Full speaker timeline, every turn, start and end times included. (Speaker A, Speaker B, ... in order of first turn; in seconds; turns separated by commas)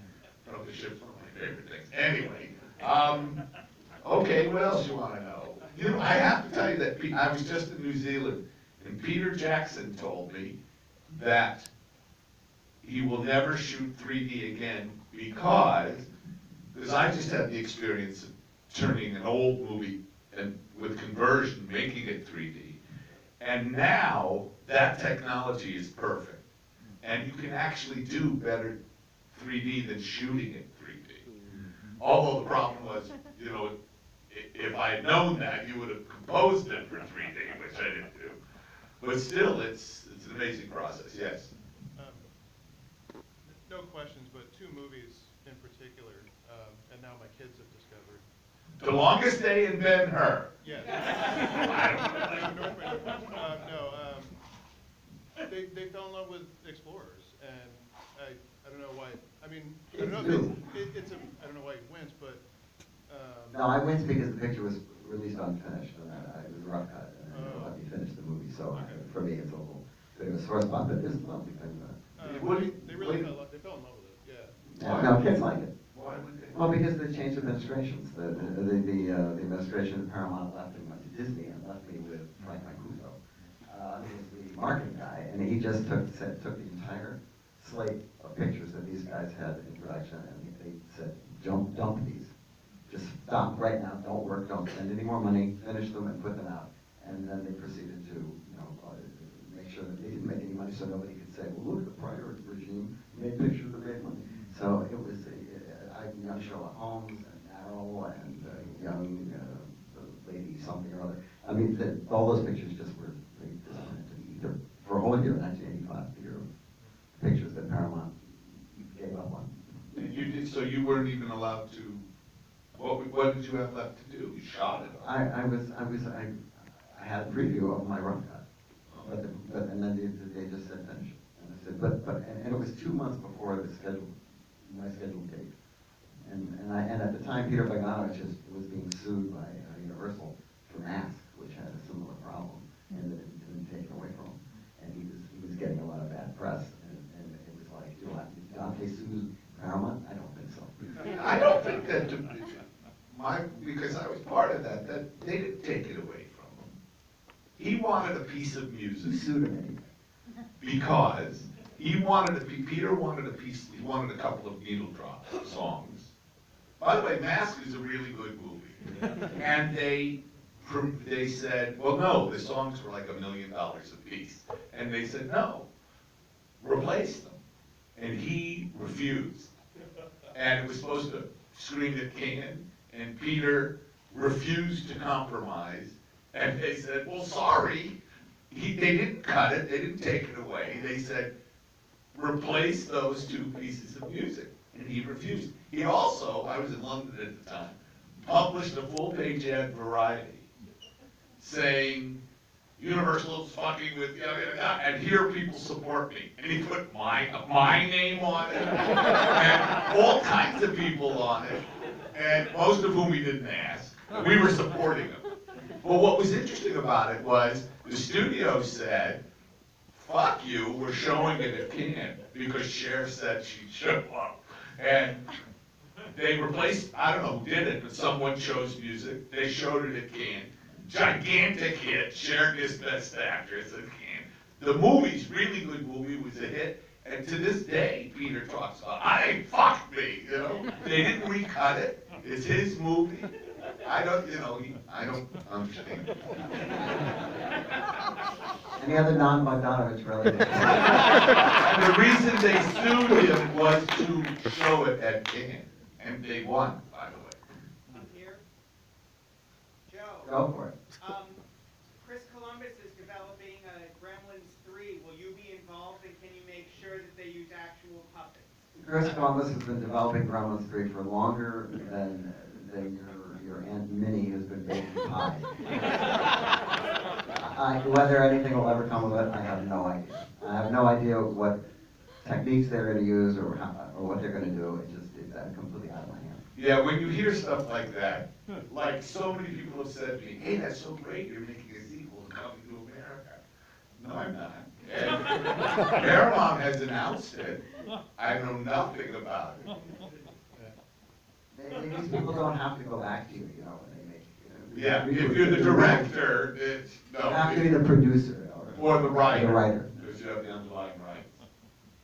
Speaker A: 0.4-3.4, Speaker A: 4.0-10.6, Speaker A: 11.1-11.7, Speaker A: 12.8-16.1, Speaker A: 16.7-22.8, Speaker A: 23.4-26.4, Speaker A: 27.0-28.8, Speaker A: 29.3-31.3, Speaker A: 32.0-33.7, Speaker A: 34.3-38.4, Speaker A: 39.0-41.5, Speaker B: 41.9-42.3, Speaker B: 43.5-48.2, Speaker A: 48.8-52.7, Speaker B: 50.6-54.3, Speaker B: 55.4-62.4, Speaker C: 59.9-60.5, Speaker B: 63.1-63.6, Speaker C: 63.5-72.0, Speaker B: 67.3-67.7, Speaker B: 68.7-69.0, Speaker B: 72.2-74.6, Speaker A: 72.2-73.3, Speaker A: 74.7-75.2, Speaker C: 74.8-75.7, Speaker A: 75.9-76.6, Speaker C: 76.5-92.3, Speaker C: 92.9-116.4, Speaker C: 117.2-119.5, Speaker A: 119.9-122.0, Speaker A: 122.8-125.1, Speaker C: 125.0-128.4, Speaker A: 128.9-129.1, Speaker C: 129.0-135.5, Speaker C: 136.2-151.1, Speaker A: 151.0-156.7, Speaker A: 157.6-159.2, Speaker C: 159.0-159.8, Speaker A: 160.6-166.1, Speaker A: 166.8-175.7, Speaker A: 176.6-177.4, Speaker A: 177.9-179.5, Speaker A: 180.3-188.0, Speaker A: 188.5-191.3, Speaker A: 192.1-200.5, Speaker A: 201.4-202.2, Speaker A: 202.8-215.3, Speaker A: 215.8-219.2, Speaker A: 219.9-225.3, Speaker A: 226.1-246.2, Speaker C: 248.8-251.3, Speaker A: 251.2-257.4, Speaker D: 257.9-258.4, Speaker D: 259.9-260.4, Speaker C: 260.2-260.7, Speaker D: 261.0-261.4, Speaker D: 262.0-268.7, Speaker C: 268.8-275.8, Speaker C: 277.4-281.6, Speaker C: 282.2-286.4, Speaker A: 286.5-293.4, Speaker A: 294.0-299.7, Speaker C: 301.5-306.1, Speaker A: 304.7-307.7, Speaker C: 307.2-309.9, Speaker A: 308.7-311.4